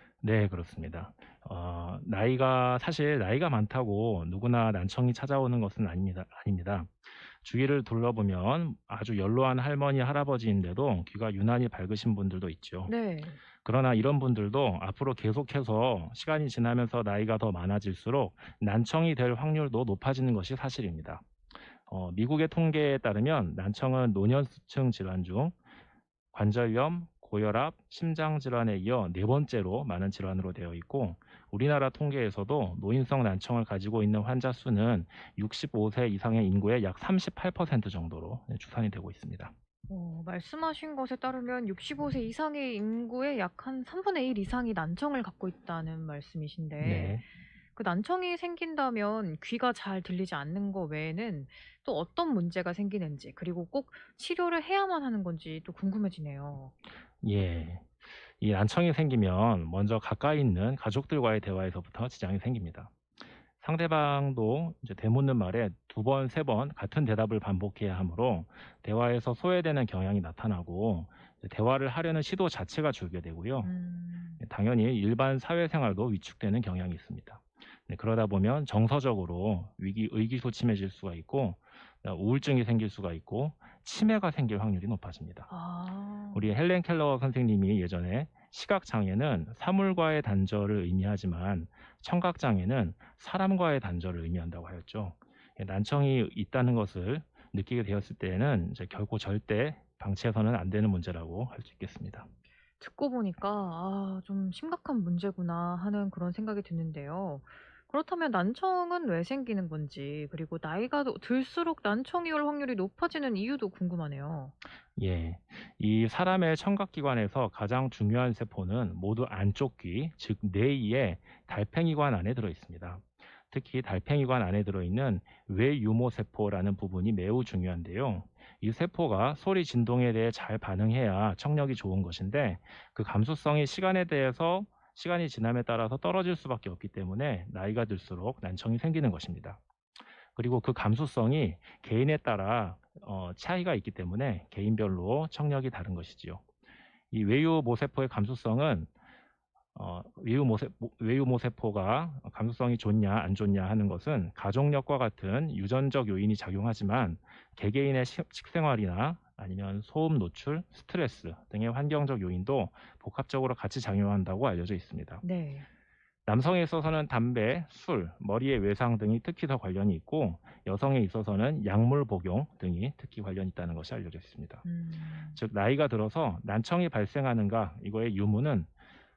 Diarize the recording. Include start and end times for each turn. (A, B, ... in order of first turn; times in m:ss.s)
0:00.2-0:12.9 A
0:12.9-0:13.4 B
0:13.6-0:21.2 A
0:21.9-0:25.6 A
0:26.3-0:39.5 A
0:39.9-0:56.7 B
0:46.8-0:47.2 A
0:57.2-1:02.9 A
1:03.6-1:13.7 A
1:13.6-1:14.4 B
1:14.4-1:25.5 A
1:25.5-1:26.5 B
1:26.3-1:42.3 A
1:42.8-1:54.6 B
1:55.0-2:19.6 A
2:20.4-2:26.4 A
2:27.1-2:28.9 A
2:29.8-2:45.2 A
2:45.2-2:45.7 B
2:46.3-2:54.6 A
2:54.6-2:55.4 B
2:55.4-2:58.7 A